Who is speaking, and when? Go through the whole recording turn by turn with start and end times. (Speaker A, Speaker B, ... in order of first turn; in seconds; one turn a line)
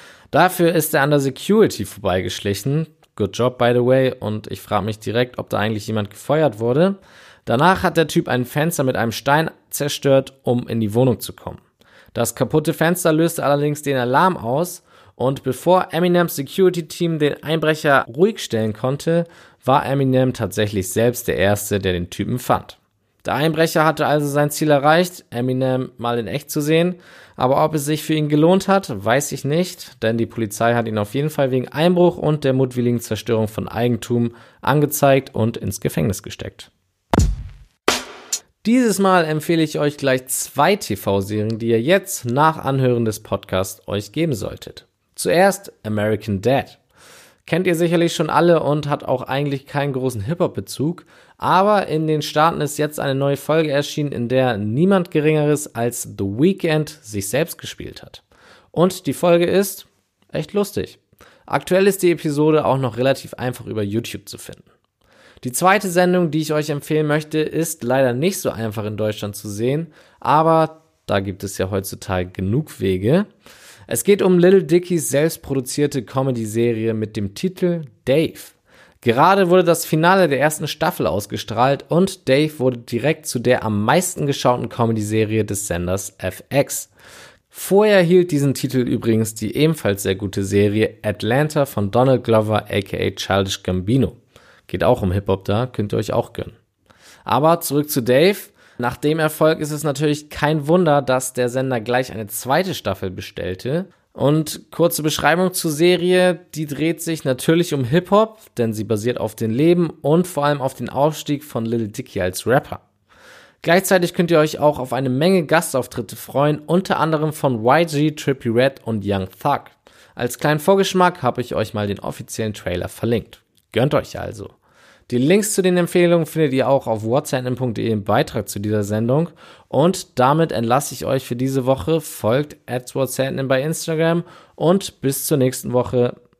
Speaker A: 0.3-11.6
Speaker A: 12.1-36.7
Speaker A: 38.6-46.8
Speaker A: 47.4-64.7
Speaker A: 65.4-73.3
Speaker A: 73.9-86.9
Speaker A: 87.5-94.2
Speaker A: 94.7-96.5
Speaker A: 97.2-112.8
Speaker A: 113.6-124.5
Speaker A: 125.1-136.2